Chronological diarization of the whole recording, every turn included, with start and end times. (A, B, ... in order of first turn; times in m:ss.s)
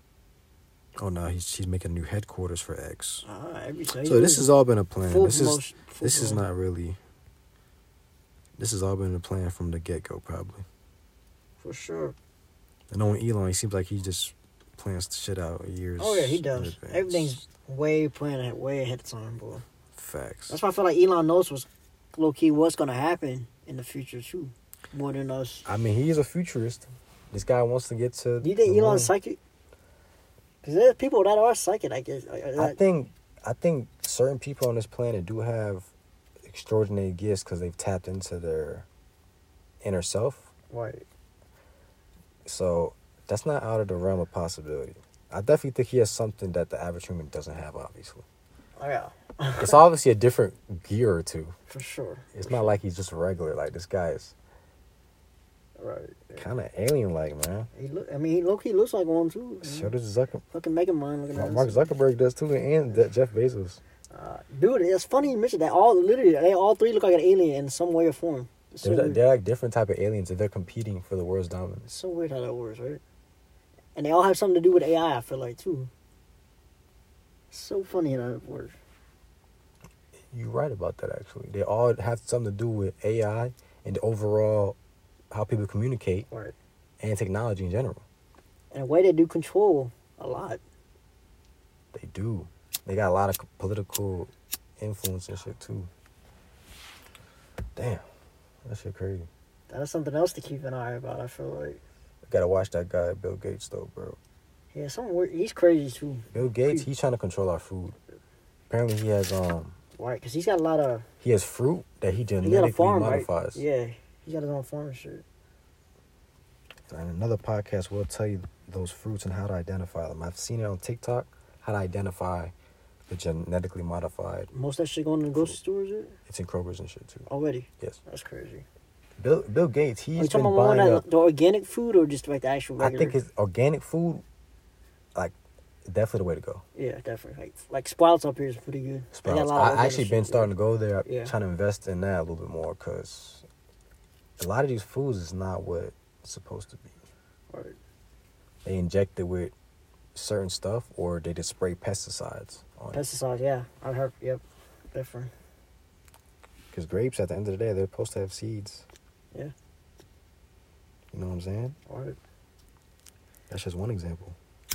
0:01.0-0:03.3 A
0:03.2-0:04.5 B
0:04.0-0:07.0 A
0:05.0-0:06.4 B
0:08.6-0:10.7 A
0:11.6-0:12.2 B
0:12.9-0:17.4 A
0:16.0-0:19.6 B
0:20.0-0:20.6 A
0:20.5-0:25.6 B
0:25.7-0:29.1 A
0:28.4-0:29.4 B
0:30.6-0:32.8 B
0:32.6-0:35.9 A
0:36.5-0:38.9 A
0:39.8-0:40.5 A
0:40.7-0:41.0 B
0:42.5-0:48.2 A
0:48.8-0:49.8 B
0:49.6-0:51.6 A
0:51.7-0:52.8 B
0:52.3-0:54.4 A
0:55.8-0:56.5 B
0:56.4-0:57.7 A
0:57.7-0:59.9 B
0:59.6-1:00.4 A
1:00.5-1:01.9 B
1:01.3-1:03.8 A
1:04.1-1:09.2 B
1:08.8-1:11.9 A
1:11.9-1:13.0 B
1:14.0-1:15.9 B
1:17.5-1:18.8 B
1:20.3-1:24.8 A
1:25.3-1:26.3 A
1:26.3-1:26.6 B
1:27.0-1:28.0 A
1:28.7-1:30.6 B
1:31.9-1:35.9 A
1:37.8-1:38.0 A
1:38.6-1:39.3 A
1:39.7-1:41.8 B
1:42.2-1:44.2 A
1:44.7-1:46.9 B
1:46.3-1:48.0 A
1:48.7-1:49.8 A
1:50.0-1:51.0 B
1:51.2-1:53.6 A
1:52.4-1:55.2 B
1:56.9-2:02.5 A
2:03.1-2:04.5 A
2:04.5-2:06.2 B
2:06.3-2:07.3 A
2:07.3-2:08.6 B
2:09.2-2:11.0 A
2:10.2-2:13.2 B
2:12.8-2:14.2 A
2:15.9-2:16.6 A
2:16.8-2:20.5 B
2:19.1-2:23.5 A
2:21.0-2:21.3 B
2:24.4-2:27.0 A
2:27.5-2:27.8 B
2:28.6-2:29.5 A
2:30.2-2:33.0 A
2:32.9-2:35.3 B
2:36.7-2:38.9 A
2:41.1-2:41.8 A
2:41.9-2:42.2 B
2:43.5-2:44.4 A